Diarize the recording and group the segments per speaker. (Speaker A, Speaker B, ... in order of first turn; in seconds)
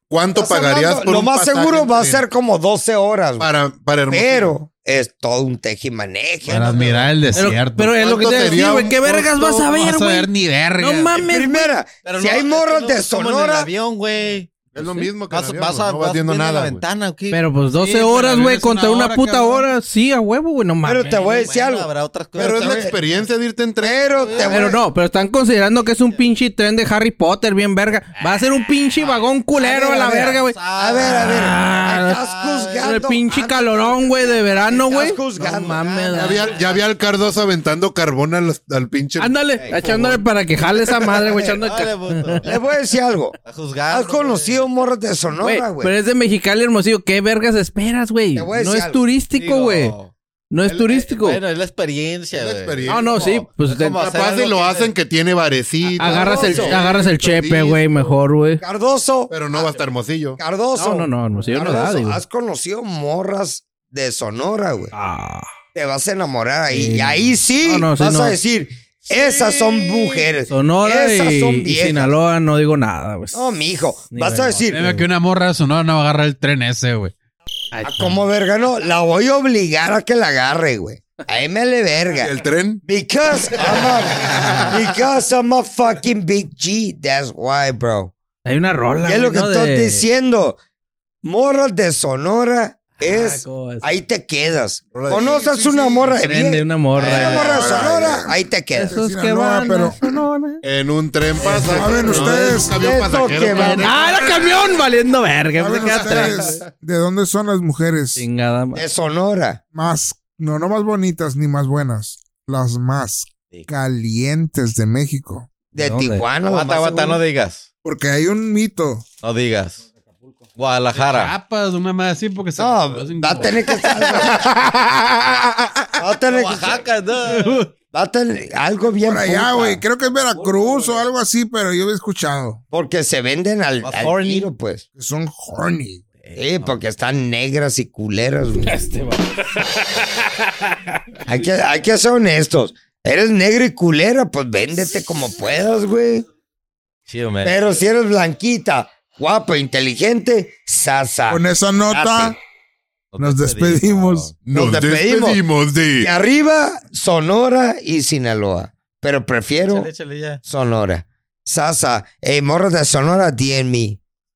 Speaker A: 0.1-2.3, 3.4-4.5, 8.0-9.7, 14.7-16.8, 22.4-24.6, 36.1-39.3, 52.3-53.3, 53.8-58.0, 59.3-60.4, 82.1-82.8, 94.9-96.2, 100.6-104.5, 124.3-125.7, 154.4-156.1
Speaker B: 0.3-3.5, 4.1-7.2, 11.2-13.7, 20.8-22.9, 23.8-24.8, 29.5-35.9, 42.4-43.4, 43.9-45.9, 48.3-49.0, 56.0-56.8, 58.6-59.8, 60.4-64.9, 65.7-72.2, 73.3-74.8, 77.8-82.3, 82.8-88.1, 89.0-90.6, 91.2-99.0, 101.4-104.0, 108.7-109.6, 115.7-117.2, 122.6-124.5, 126.0-126.9, 127.9-129.8, 132.7-134.8, 136.3-138.8, 141.2-146.2, 147.4-152.3, 154.5-155.4, 156.0-159.9, 160.4-164.0
Speaker C: 6.5-8.0, 9.6-11.1, 17.7-19.7, 74.7-77.1, 120.9-123.6, 127.3-127.6
Speaker D: 7.3-11.7, 17.3-21.2, 24.5-32.2, 32.7-36.5, 39.2-42.5, 45.4-49.9, 50.5-51.4, 52.9-54.0, 56.0-58.6, 60.7-62.2, 64.9-65.5, 66.7-68.4, 70.5-73.4, 74.1-75.0, 77.7-78.2, 84.2-84.7, 88.4-90.0, 93.0-93.9, 96.1-97.4, 98.8-100.6, 101.4-101.7, 103.4-106.7, 108.2-108.8, 115.8-116.3, 138.6-141.2
Speaker E: 12.0-17.5, 21.0-22.8, 24.2-24.7, 30.4-31.5, 32.1-32.9, 35.4-36.9, 39.6-40.3, 41.1-42.5, 43.4-44.7, 49.3-50.1, 50.7-54.9, 55.8-56.8, 97.0-97.8, 116.4-117.7, 119.2-119.8, 120.5-121.3, 123.6-124.3, 126.0-127.7, 133.8-134.5, 136.2-136.8, 147.1-147.8, 153.1-154.4, 159.7-160.4
Speaker F: 97.2-100.0, 101.6-102.9, 105.6-108.2, 109.7-115.5, 117.8-119.0, 129.0-132.6, 134.9-136.0, 151.3-152.4, 153.2-154.3